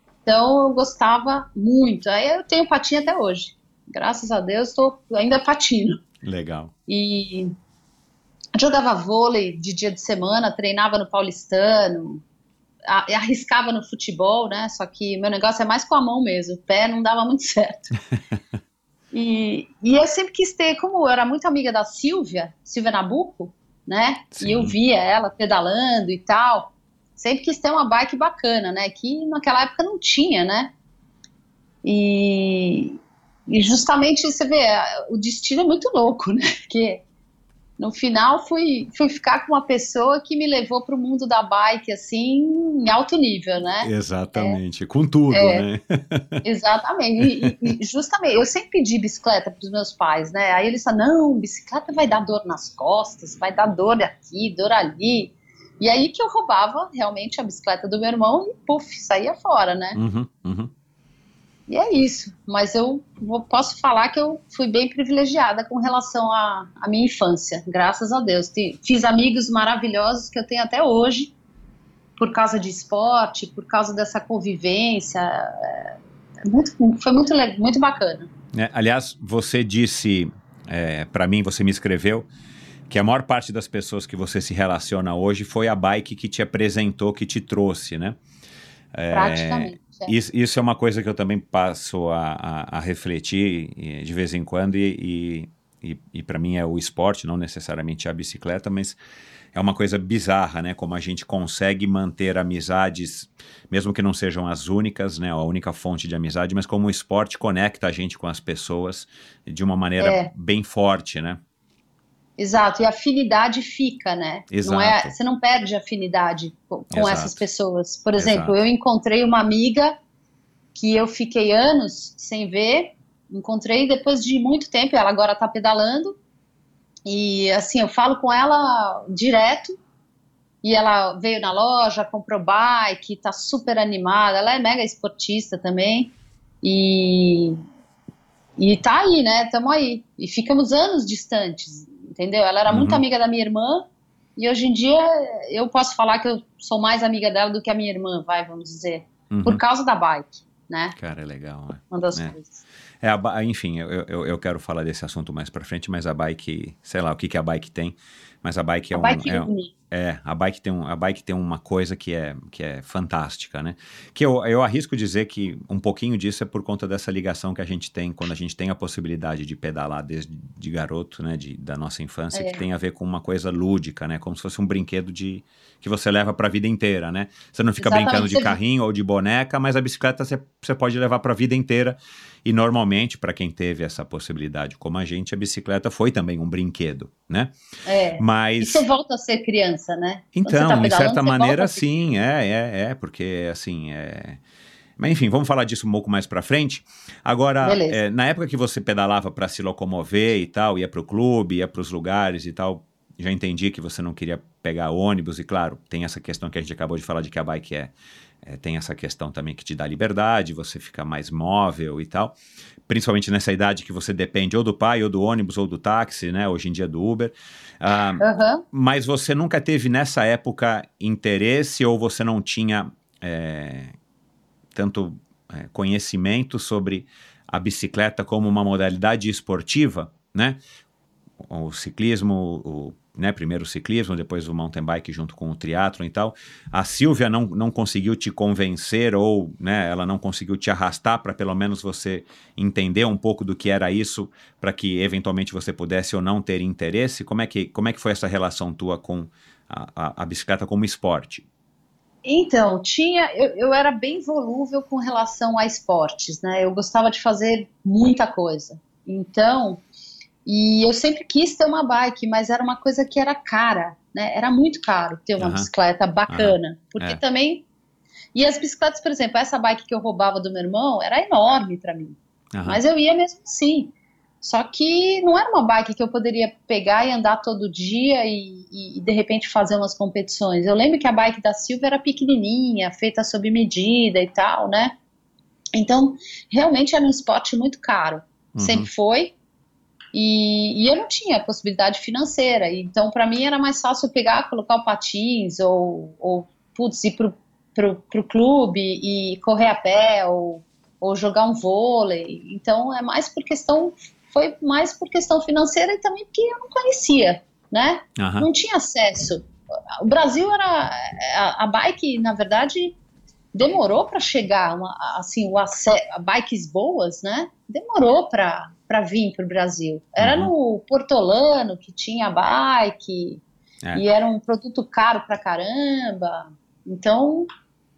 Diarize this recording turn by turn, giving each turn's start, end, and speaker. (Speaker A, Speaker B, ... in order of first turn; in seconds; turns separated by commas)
Speaker A: 0.3-6.0, Speaker B: 6.2-6.7, Speaker A: 6.9-7.5, Speaker A: 8.6-12.2, Speaker A: 12.9-17.9, Speaker A: 19.1-30.7, Speaker B: 24.4-24.8, Speaker A: 31.8-37.0, Speaker A: 37.8-44.6, Speaker B: 43.8-46.4, Speaker A: 45.3-45.6, Speaker A: 46.4-60.0, Speaker B: 60.0-60.7, Speaker A: 61.7-71.3, Speaker A: 72.2-76.0, Speaker A: 76.5-78.3, Speaker B: 78.5-82.3, Speaker B: 82.9-88.2, Speaker B: 88.9-99.0, Speaker A: 89.1-90.1, Speaker B: 99.5-111.4, Speaker A: 110.0-110.3, Speaker A: 112.4-120.0, Speaker B: 114.5-115.1, Speaker B: 116.9-117.4, Speaker B: 118.2-118.6, Speaker A: 120.8-126.2, Speaker A: 127.1-129.8, Speaker A: 130.6-137.6, Speaker A: 138.6-151.0, Speaker B: 142.7-143.0, Speaker B: 149.3-149.6, Speaker B: 151.0-152.3, Speaker A: 151.9-152.6, Speaker B: 153.0-187.5, Speaker A: 158.9-159.7, Speaker A: 172.3-172.6, Speaker A: 177.8-178.6, Speaker A: 187.9-191.9, Speaker B: 188.2-188.8, Speaker B: 190.3-194.4, Speaker B: 195.0-212.3, Speaker A: 197.6-198.0, Speaker B: 212.9-223.9, Speaker A: 218.2-218.6, Speaker B: 224.7-230.6, Speaker B: 231.4-251.4, Speaker A: 252.2-259.8, Speaker A: 260.5-267.6, Speaker B: 265.4-265.7, Speaker B: 266.3-267.2, Speaker A: 268.4-284.9, Speaker B: 272.5-272.8, Speaker A: 285.8-289.3, Speaker B: 288.6-288.9, Speaker A: 290.1-309.4, Speaker B: 308.2-308.5, Speaker A: 310.0-313.0, Speaker A: 313.5-323.4, Speaker B: 320.2-320.5, Speaker A: 323.9-327.5